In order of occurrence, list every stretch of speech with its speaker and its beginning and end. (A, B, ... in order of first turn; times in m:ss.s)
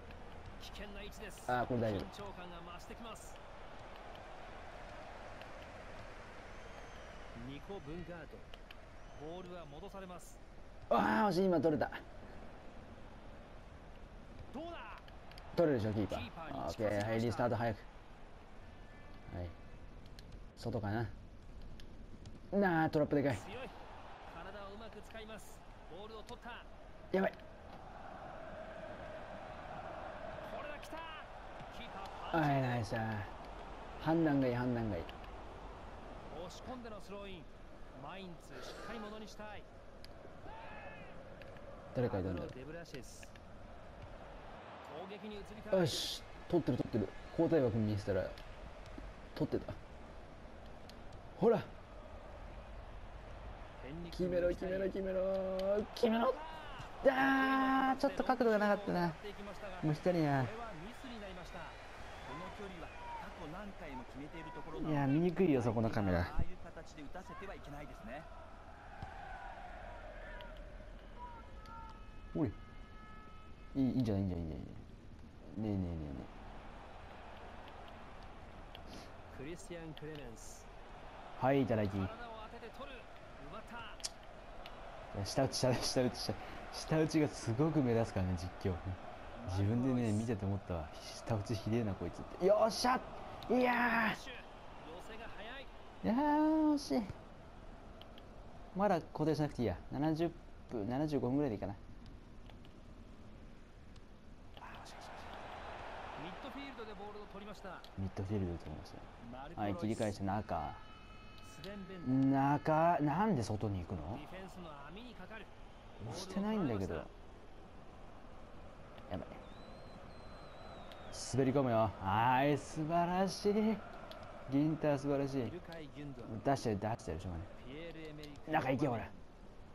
0:00.6-0:03.4 A
0:01.5-0:02.1 B
0:07.4-0:08.5 A
0:09.1-0:10.4 A
0:10.9-0:12.0 B
0:14.5-0:15.1 A
0:15.5-0:17.9 B
0:16.1-0:17.6 A
0:19.3-0:19.6 B
0:20.6-0:21.2 B
0:22.5-0:23.4 B
0:23.3-0:26.7 A
0:27.1-0:27.4 B
0:30.4-0:32.9 A
0:32.3-0:33.3 B
0:34.0-0:35.1 B
0:36.3-0:39.7 A
0:41.9-0:42.6 B
0:42.0-0:43.3 A
0:44.8-0:46.1 A
0:45.7-0:48.4 B
0:49.3-0:49.8 B
0:51.4-0:51.7 B
0:53.8-0:55.0 A
0:54.1-0:56.4 B
0:56.0-1:01.8 A
0:57.0-0:59.2 B
0:59.8-1:00.5 B
1:02.2-1:08.3 C
1:04.8-1:06.4 B
1:13.7-1:14.9 B
1:15.4-1:16.3 B
1:19.3-1:20.7 A
1:21.4-1:22.1 B
1:21.9-1:24.0 A
1:25.1-1:34.2 B
1:29.4-1:30.4 A
1:33.5-1:35.7 A
1:36.0-1:37.1 B
1:38.7-1:41.8 B
1:44.6-1:45.2 A
1:46.2-1:47.9 A
1:48.0-1:50.8 B
1:49.2-1:50.2 A
1:51.4-1:52.3 A
1:52.0-1:54.2 B
1:54.1-1:55.5 A
1:56.0-1:57.1 B
1:56.0-1:57.1 A
1:59.1-1:59.4 B
2:01.1-2:03.8 B
2:04.5-2:05.6 B
2:05.4-2:06.4 A
2:06.2-2:07.5 B
2:07.5-2:09.2 A
2:08.5-2:09.1 B